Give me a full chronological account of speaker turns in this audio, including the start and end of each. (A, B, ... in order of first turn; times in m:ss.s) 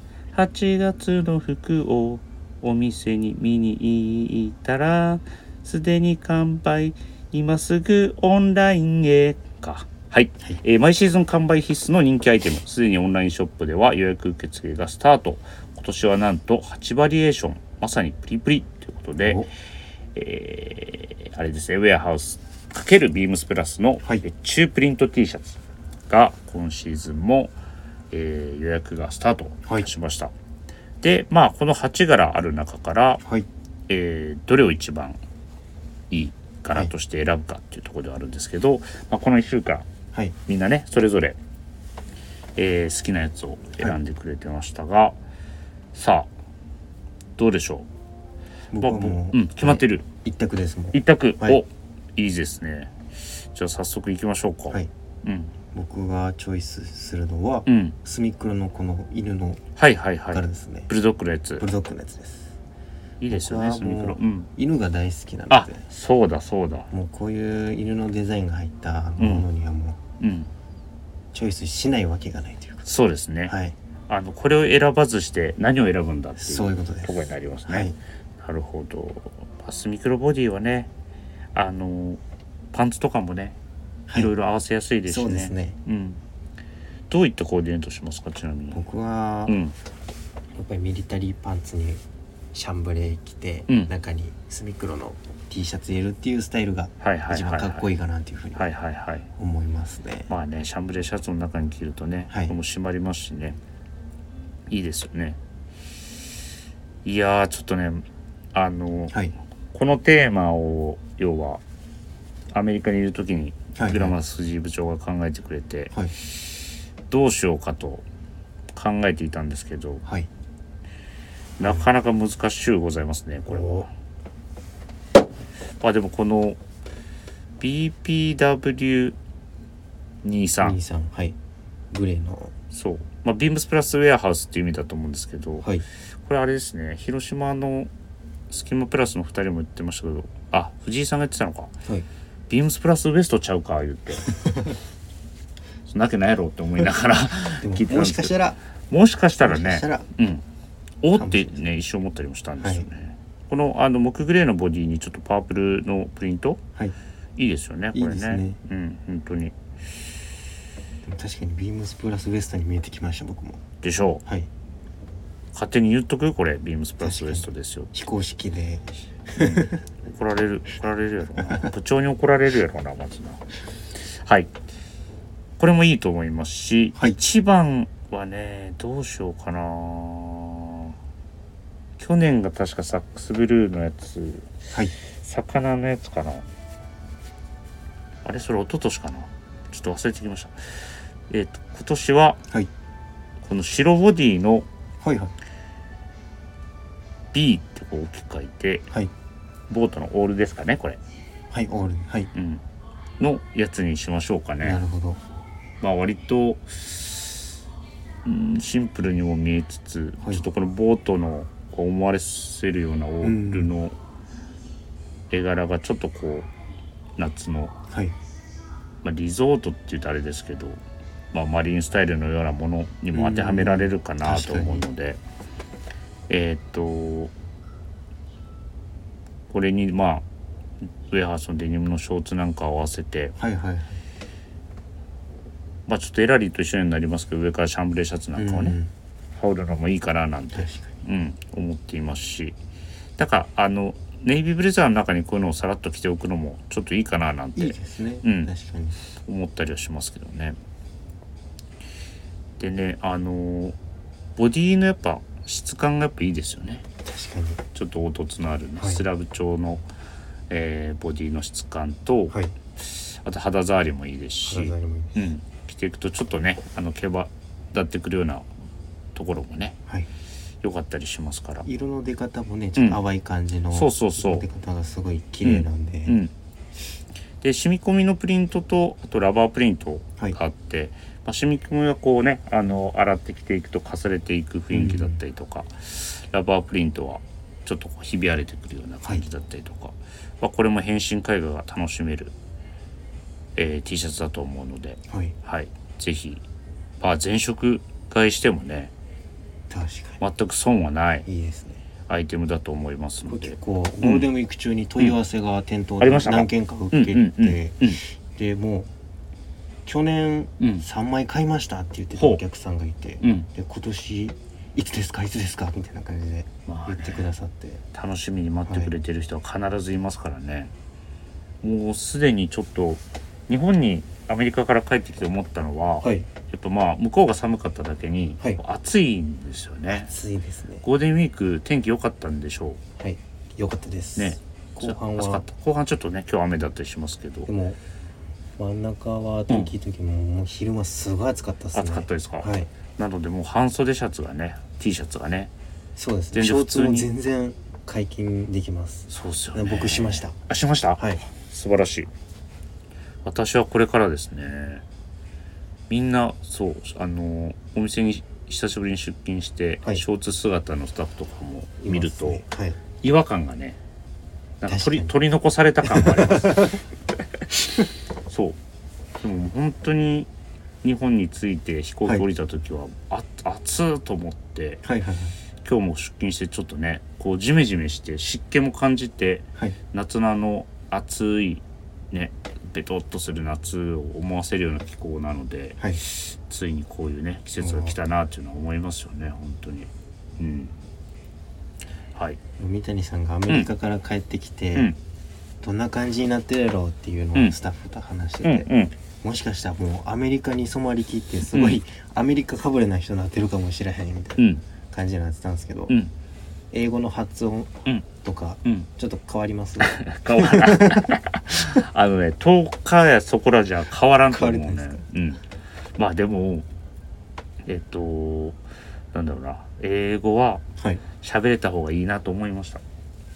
0:00.3-0:19.5 A
0:19.2-0:19.5 B
0:20.2-0:27.5 A
0:28.1-0:30.3 A
0:31.0-0:33.2 A
0:33.9-0:35.2 A
0:36.1-0:39.9 A
0:40.5-0:41.4 A
0:42.6-0:45.2 A
0:45.9-0:46.3 A
0:47.4-0:47.9 A
0:48.7-0:51.6 B
0:48.8-0:50.1 A
0:50.9-0:53.0 A
0:53.5-0:55.5 A
0:55.7-0:59.6 B
0:57.7-0:58.0 A
0:59.8-1:01.7 A
1:00.3-1:00.9 B
1:01.6-1:02.6 B
1:03.2-1:04.5 A
1:03.3-1:05.8 B
1:05.5-1:06.9 A
1:06.9-1:10.0 B
1:09.2-1:09.4 A
1:10.2-1:10.5 A
1:11.3-1:12.9 B
1:12.9-1:13.6 A
1:13.5-1:13.8 B
1:14.1-1:20.9 A
1:16.4-1:18.0 B
1:21.6-1:22.2 A
1:22.7-1:23.6 A
1:24.1-1:26.2 A
1:25.1-1:25.8 B
1:27.1-1:28.8 A
1:28.7-1:29.6 B
1:29.5-1:29.7 A
1:30.6-1:32.0 B
1:32.5-1:38.7 B
1:37.0-1:37.9 A
1:38.6-1:39.3 A
1:39.4-1:40.3 B
1:40.3-1:43.6 A
1:44.7-1:45.4 A
1:47.0-1:49.2 A
1:49.7-1:51.6 A
1:52.5-1:58.0 A
1:53.8-1:54.1 B
1:58.8-2:00.0 A
2:01.6-2:03.9 A
2:03.5-2:03.9 B
2:05.8-2:06.6 A
2:07.6-2:09.2 A
2:10.2-2:10.8 A
2:10.6-2:11.4 B
2:11.9-2:12.5 B
2:12.7-2:15.7 A
2:16.2-2:17.9 A
2:18.5-2:21.8 A
2:22.5-2:24.4 A
2:24.5-2:24.7 B
2:25.9-2:30.4 A
2:27.6-2:28.6 B
2:29.4-2:30.1 B
2:31.0-2:36.6 A
2:31.1-2:31.6 B
2:32.6-2:32.9 B
2:37.4-2:39.6 A
2:37.9-2:38.6 B
2:41.0-2:43.6 B
2:43.8-2:44.2 A
2:45.5-2:47.9 A
2:47.0-2:49.8 B
2:49.4-2:53.4 A
2:54.2-2:54.5 A
2:55.6-3:01.0 A
3:02.0-3:04.6 A
3:05.2-3:06.4 A
3:08.2-3:10.6 A
3:11.3-3:12.4 A
3:13.4-3:14.7 A
3:15.0-3:15.3 B
3:17.3-3:18.9 A
3:19.7-3:21.0 A
3:21.5-3:22.3 B
3:22.3-3:22.6 A
3:23.2-3:24.8 A
3:24.6-3:25.2 B
3:25.8-3:27.5 A
3:28.2-3:34.0 A
3:33.2-3:33.7 B
3:35.3-3:36.5 A
3:37.2-3:37.8 A
3:37.9-3:38.2 B
3:39.0-3:40.8 A
3:41.3-3:45.2 A
3:43.1-3:44.9 B
3:46.3-3:47.3 A
3:49.5-3:50.2 A
3:51.1-3:53.4 A
3:53.4-3:54.0 B
3:55.9-3:58.8 A
3:58.4-3:58.9 B
3:59.4-4:02.6 A
4:00.6-4:00.9 B
4:03.2-4:08.5 A
4:07.6-4:09.0 B
4:09.2-4:10.6 A
4:12.6-4:13.8 A
4:14.4-4:16.8 A
4:17.0-4:17.6 B
4:17.8-4:19.8 A
4:18.8-4:19.0 B
4:20.5-4:28.5 A
4:24.5-4:25.2 B
4:29.2-4:29.8 A
4:30.6-4:31.7 A
4:31.6-4:36.2 B
4:33.7-4:34.4 A
4:35.4-4:36.3 A
4:37.4-4:52.3 A
4:44.7-4:45.2 B
4:53.6-4:56.4 A
4:55.1-4:55.4 B
4:57.0-4:58.9 A
4:59.7-5:00.2 B
5:00.2-5:01.3 A
5:01.3-5:01.8 B
5:02.1-5:04.3 A
5:03.3-5:08.9 B
5:06.0-5:08.0 A
5:09.8-5:17.8 B
5:13.2-5:13.5 A
5:16.7-5:17.3 A
5:17.9-5:20.7 A
5:18.7-5:18.9 B
5:21.6-5:30.1 A
5:26.0-5:26.3 B
5:30.0-5:30.8 B
5:30.8-5:32.8 A
5:33.0-5:35.4 B
5:34.2-5:37.5 A
5:37.5-5:37.8 B
5:38.6-5:42.7 B
5:41.7-5:45.5 A
5:46.0-5:50.4 B
5:46.3-5:47.1 A
5:49.1-5:52.1 A
5:53.2-5:54.8 A
5:55.9-6:02.4 A
6:01.8-6:02.8 B
6:03.0-6:03.8 A
6:04.6-6:06.8 A
6:04.7-6:05.1 B
6:05.8-6:06.8 B
6:08.3-6:08.6 A
6:09.2-6:10.3 A
6:10.8-6:14.8 A
6:14.8-6:15.4 B
6:15.6-6:30.7 A
6:27.6-6:27.9 B
6:32.6-6:34.9 B
6:35.6-6:38.7 B
6:38.4-6:39.0 A
6:39.2-6:46.0 B
6:41.5-6:41.8 A
6:44.4-6:44.6 A
6:46.7-6:51.1 B
6:49.8-6:55.4 A
6:54.3-6:55.0 B
6:56.0-6:56.7 A
6:57.7-6:58.6 A
6:59.1-7:00.6 A
7:01.2-7:02.8 A